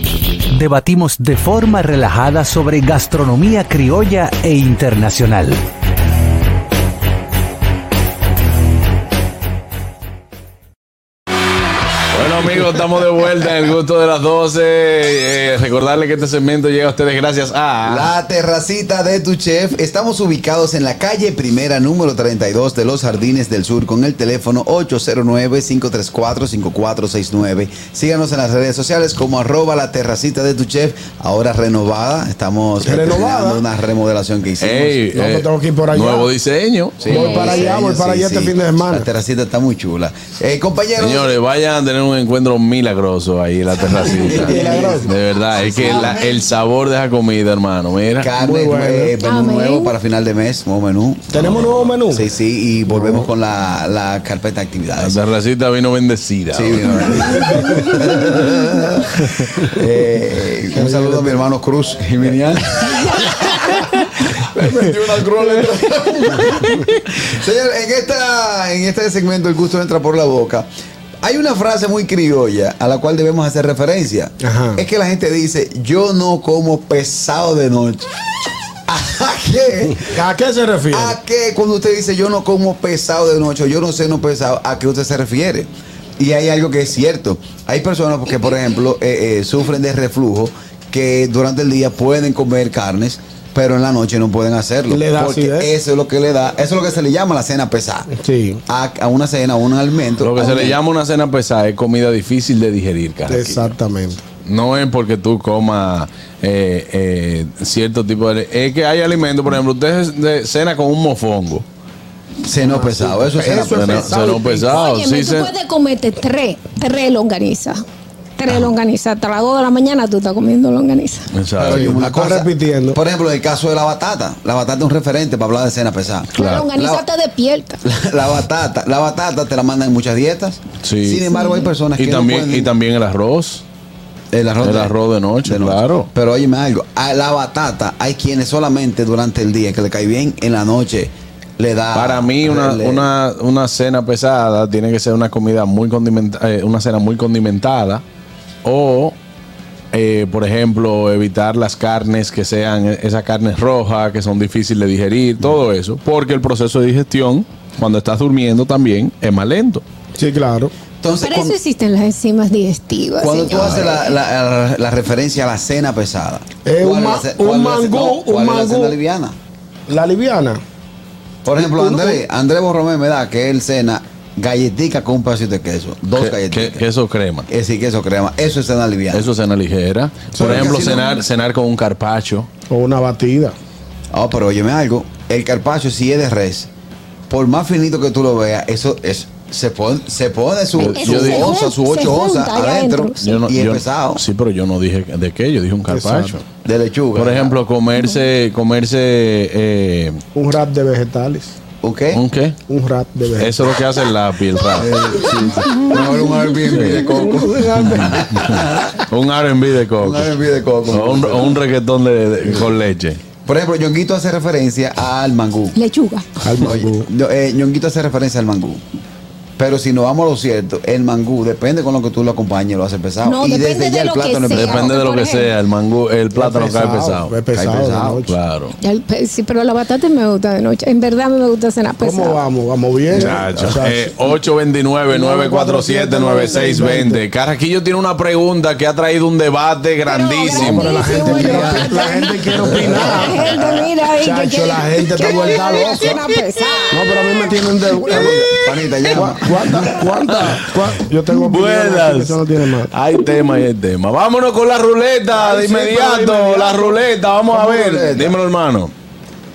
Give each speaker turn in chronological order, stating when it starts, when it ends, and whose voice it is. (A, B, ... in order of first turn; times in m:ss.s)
0:00.5-0:05.6 A
0:12.1-0:18.1 B
0:17.8-0:35.0 C
0:32.8-0:33.6 D
0:34.6-0:37.1 B
0:35.1-0:36.3 D
0:37.0-0:41.3 C
0:37.1-0:39.0 D
0:37.1-0:37.7 E
0:41.0-0:48.3 B
0:44.0-0:45.0 C
0:44.3-0:45.1 D
0:45.6-0:46.2 C
0:48.2-0:55.2 C
0:48.4-0:49.1 D
0:49.2-0:49.9 E
0:51.3-0:52.2 D
0:52.9-0:53.3 D
0:55.0-0:57.7 B
0:56.5-1:10.7 C
1:00.7-1:01.4 D
1:05.4-1:05.6 B
1:06.2-1:06.9 B
1:11.2-1:18.1 C
1:14.4-1:14.8 D
1:18.9-1:20.2 C
1:20.1-1:21.2 D
1:20.9-1:38.1 C
1:34.9-1:35.7 D
1:38.1-1:38.6 D
1:38.7-1:40.8 C
1:40.2-1:43.8 B
1:43.3-1:44.2 D
1:44.4-1:51.6 B
1:52.4-1:54.2 C
1:52.7-1:54.8 D
1:53.7-1:55.5 B
1:54.7-1:57.8 E
1:58.4-2:01.3 E
2:01.3-2:02.0 B
2:01.6-2:07.0 C
2:01.6-2:03.0 D
2:06.3-2:06.7 B
2:06.4-2:07.8 E
2:07.8-2:12.7 C
2:10.8-2:11.2 B
2:11.3-2:11.7 E
2:12.0-2:13.6 B
2:14.3-2:23.1 C
2:14.6-2:16.1 B
2:21.9-2:28.0 B
2:28.6-2:29.2 B
2:29.9-2:39.8 B
2:40.2-2:40.7 D
2:41.0-2:41.6 C
2:41.2-2:44.1 E
2:43.2-2:49.4 C
2:46.6-2:49.0 D
2:49.9-2:50.6 D
2:51.4-2:56.8 C
2:51.6-2:52.2 D
2:56.2-2:57.4 B
2:57.5-2:59.3 C
2:59.1-3:02.5 B
3:00.3-3:00.8 D
3:00.4-3:01.2 C
3:02.7-3:03.5 D
3:04.1-3:06.7 C
3:07.3-3:14.2 C
3:10.7-3:11.5 B
3:10.9-3:13.3 E
3:13.2-3:16.4 B
3:15.9-3:16.4 D
3:16.6-3:17.6 C
3:17.1-3:20.2 B
3:20.3-3:21.6 D
3:21.8-3:22.2 C
3:22.1-3:22.6 B
3:22.7-3:23.6 D
3:23.4-3:25.0 B
3:24.8-3:29.0 C
3:26.7-3:27.2 B
3:27.2-3:28.2 D
3:27.7-3:30.3 B
3:30.0-3:31.6 C
3:30.9-3:33.2 B
3:33.4-3:35.8 C
3:35.7-3:36.2 E
3:36.4-3:37.1 D
3:36.6-3:38.8 C
3:39.6-3:44.9 C
3:43.2-3:45.5 E
3:44.5-3:47.4 B
3:46.3-3:48.3 D
3:47.5-3:48.2 C
3:48.3-3:48.7 B
3:48.8-3:52.4 E
3:52.0-3:54.1 D
3:53.1-4:01.0 B
3:55.1-3:57.2 D
4:00.0-4:07.2 E
4:00.5-4:06.2 D
4:01.1-4:02.0 C
4:02.6-4:03.4 B
4:02.7-4:03.3 C
4:06.9-4:08.4 D
4:08.1-4:10.0 C
4:09.1-4:12.9 D
4:10.2-4:10.6 B
4:11.3-4:18.9 B
4:15.3-4:17.0 D
4:17.5-4:18.4 C